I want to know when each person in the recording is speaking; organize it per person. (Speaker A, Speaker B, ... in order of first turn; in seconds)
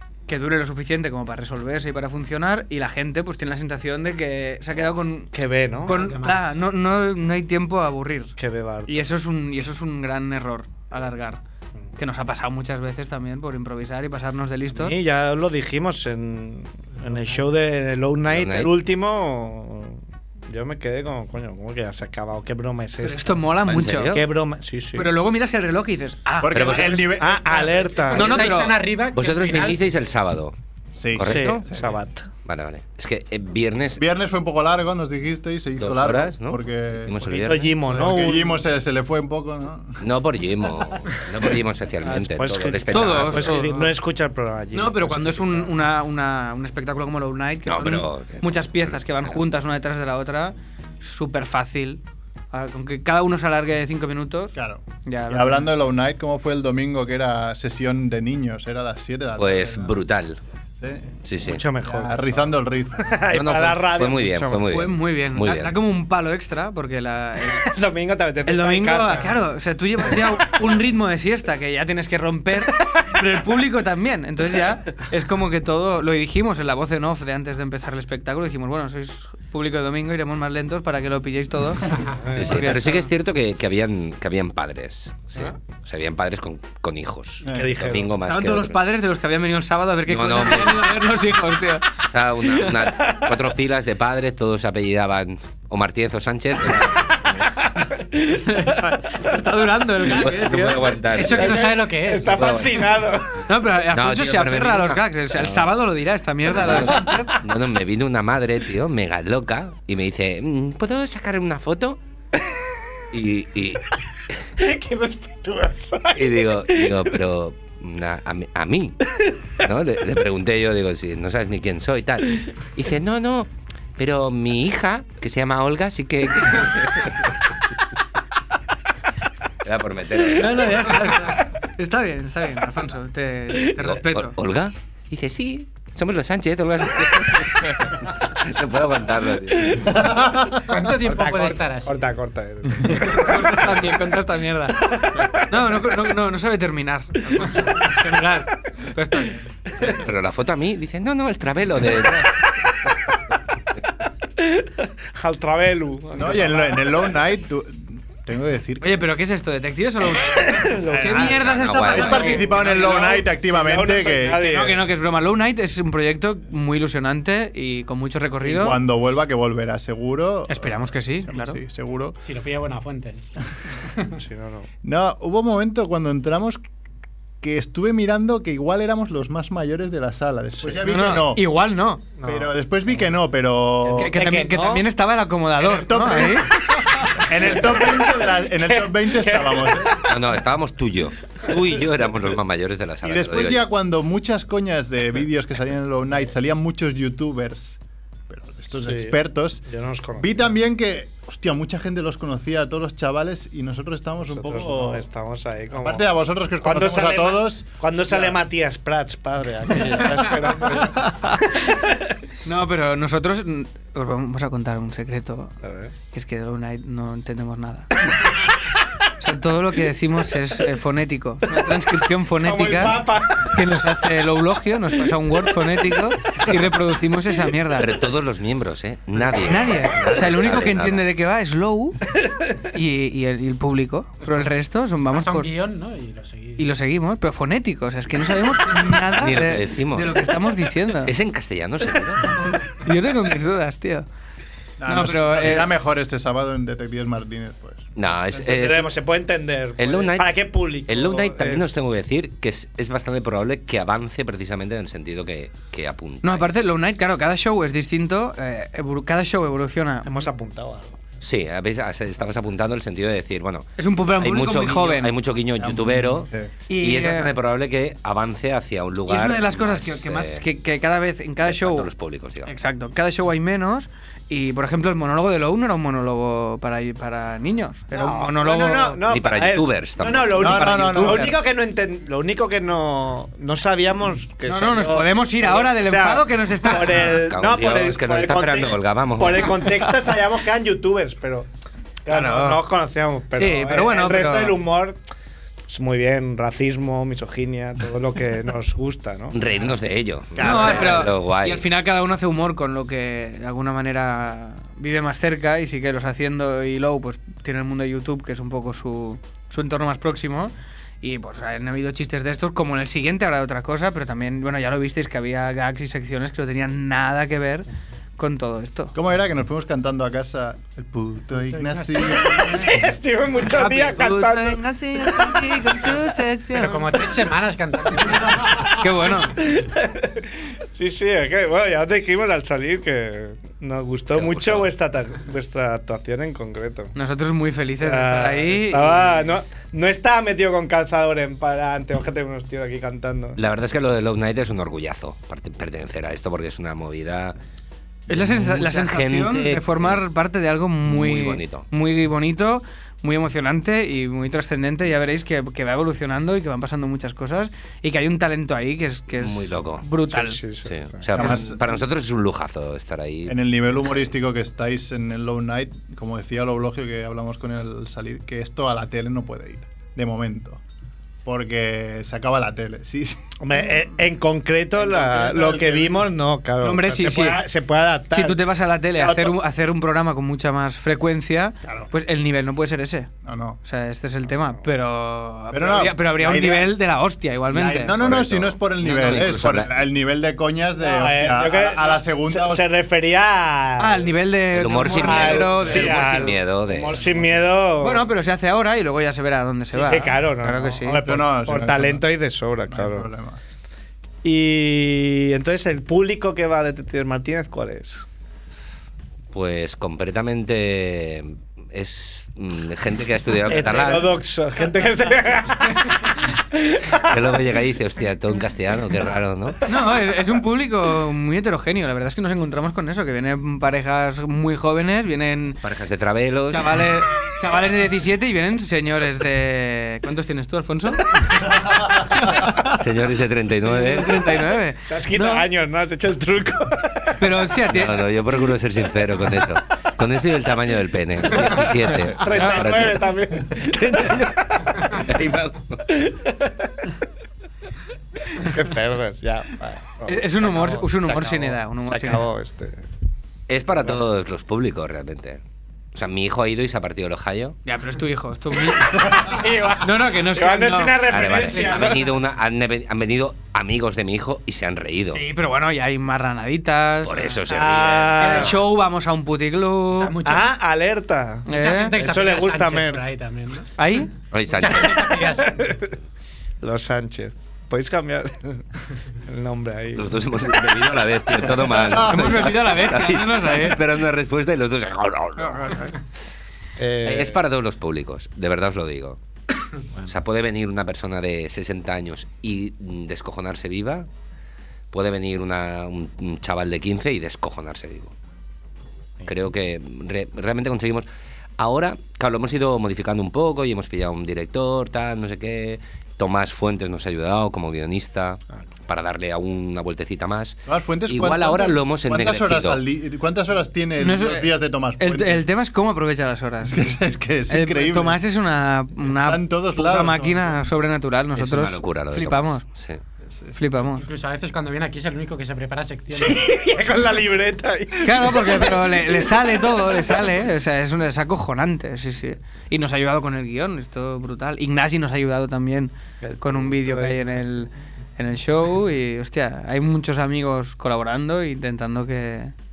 Speaker A: 0.3-5.3, 5.9-8.3, 8.9-11.4, 12.0-15.0, 23.0-24.2, 25.0-26.6, 28.1-28.9, 42.9-43.9, 44.7-52.0, 52.5-55.7, 64.6-67.7, 68.5-83.1, 88.2-92.0, 98.3-101.0, 103.4-107.4, 130.3-134.3, 143.0-144.9, 145.5-149.4, 158.8-163.2, 164.4-168.8, 170.6-171.6, 180.8-182.1, 184.0-186.6, 210.6-211.8, 212.4-217.9, 219.2-227.9, 229.5-232.0, 232.7-235.5, 236.6-241.1, 242.7-244.1, 244.9-245.7, 256.2-260.1, 263.8-265.1, 266.7-267.3, 269.1-271.9, 272.5-279.0, 280.9-281.4, 284.4-287.1, 292.1-292.6, 293.3-294.6, 300.4-317.7, 318.2-318.9, 323.4-327.2, 328.8-329.4, 336.9-339.1, 348.1-360.4, 376.6-377.4, 378.1-383.1, 383.6-388.1, 393.8-396.1, 397.8-401.0, 419.7-425.6, 426.5-431.2, 432.2-432.8, 433.6-435.5, 437.2-438.1, 442.3-442.8, 450.1-452.2, 457.6-461.8, 465.1-467.4, 468.2-470.2, 471.5-472.0, 473.8-474.1, 482.0-483.8, 514.0-516.9, 517.5-522.6, 523.5-524.1, 528.0-542.5
Speaker B: 5.3-6.1, 8.4-9.1, 14.7-23.5, 24.1-25.1, 27.2-28.5, 31.2-32.3, 37.3-38.6, 42.0-45.7, 61.4-64.7, 67.6-69.4, 70.1-70.5, 72.8-73.1, 82.2-82.7, 87.5-88.1, 101.2-103.4, 114.6-117.1, 139.7-140.1, 140.9-143.7, 144.9-145.3, 154.4-156.9, 160.3-161.3, 162.3-164.9, 174.1-174.7, 182.2-182.5, 183.8-184.9, 187.4-190.0, 198.7-200.5, 204.3-206.0, 206.6-211.0, 215.6-215.9, 222.4-223.6, 232.2-232.5, 248.4-251.7, 260.0-261.0, 277.9-291.5, 292.1-295.0, 295.7-299.4, 322.1-326.0, 329.2-336.9, 337.8-343.4, 360.1-361.3, 373.4-378.4, 378.9-379.4, 390.8-394.1, 395.0-398.1, 399.7-403.1, 404.2-408.0, 413.5-416.0, 416.5-417.1, 434.9-437.2, 442.1-444.9, 445.9-446.8, 448.3-452.9, 459.0-462.0, 467.5-468.6, 470.2-473.1, 475.4-475.9, 476.6-478.6, 479.2-480.1, 486.8-487.4, 526.1-530.2, 536.2-537.6
Speaker C: 5.9-6.4, 28.1-29.8, 101.2-102.4, 140.7-142.1, 172.2-173.2, 235.1-236.6, 321.5-321.9, 326.5-328.5, 469.9-470.5, 471.5-473.7, 474.5-475.6, 524.0-526.4
Speaker D: 18.3-18.7, 23.7-24.2, 26.5-27.1, 29.1-30.5, 31.1-31.6, 32.5-34.0, 35.8-37.9, 40.0-43.6, 47.6-49.5, 59.4-60.4, 61.2-61.6, 63.3-65.8, 82.3-88.8, 90.1-91.0, 92.1-97.4, 100.0-103.0, 103.9-105.8, 106.5-112.0, 113.1-113.8, 116.1-119.0, 119.6-127.2, 129.6-131.0, 133.8-140.0, 149.8-152.4, 161.2-162.4, 190.1-193.7, 227.8-231.1, 239.1-240.3, 241.0-242.4, 248.0-248.9, 249.8-256.5, 261.2-270.5, 271.4-272.5, 279.1-280.9, 287.0-289.7, 299.3-301.7, 334.1-334.7, 343.4-347.4, 348.1-350.0, 350.8-351.7, 359.2-359.9, 360.6-364.1, 388.0-389.9, 394.5-397.0, 409.3-414.1, 417.0-419.6, 425.6-426.9, 432.8-434.3, 437.7-445.8, 453.5-455.4, 455.9-457.6, 461.1-465.2, 467.0-468.5, 474.3-475.3, 480.0-485.9, 487.1-489.2, 490.1-494.1, 494.9-498.1, 499.2-501.1, 501.6-512.8, 521.4-523.0
Speaker E: 26.4-27.9, 30.9-31.9, 34.0-40.0, 54.5-60.0, 60.8-61.2, 61.8-63.2, 87.4-87.8, 139.9-140.6, 156.2-159.1, 160.9-164.6, 168.4-172.2, 174.8-176.6, 177.4-181.4, 182.2-184.1, 185.6-186.5, 187.1-190.1, 193.0-197.8, 198.3-199.7, 200.2-205.1, 205.7-208.4, 244.8-248.4, 265.6-266.5, 280.4-281.4, 318.9-322.6, 361.2-361.6, 363.3-370.6, 371.2-373.2, 374.8-376.1, 381.6-381.9, 383.2-383.6, 385.5-386.8, 387.4-392.7, 397.0-397.4, 400.9-402.1, 402.7-403.4, 510.7-515.5, 516.7-518.2, 519.0-520.6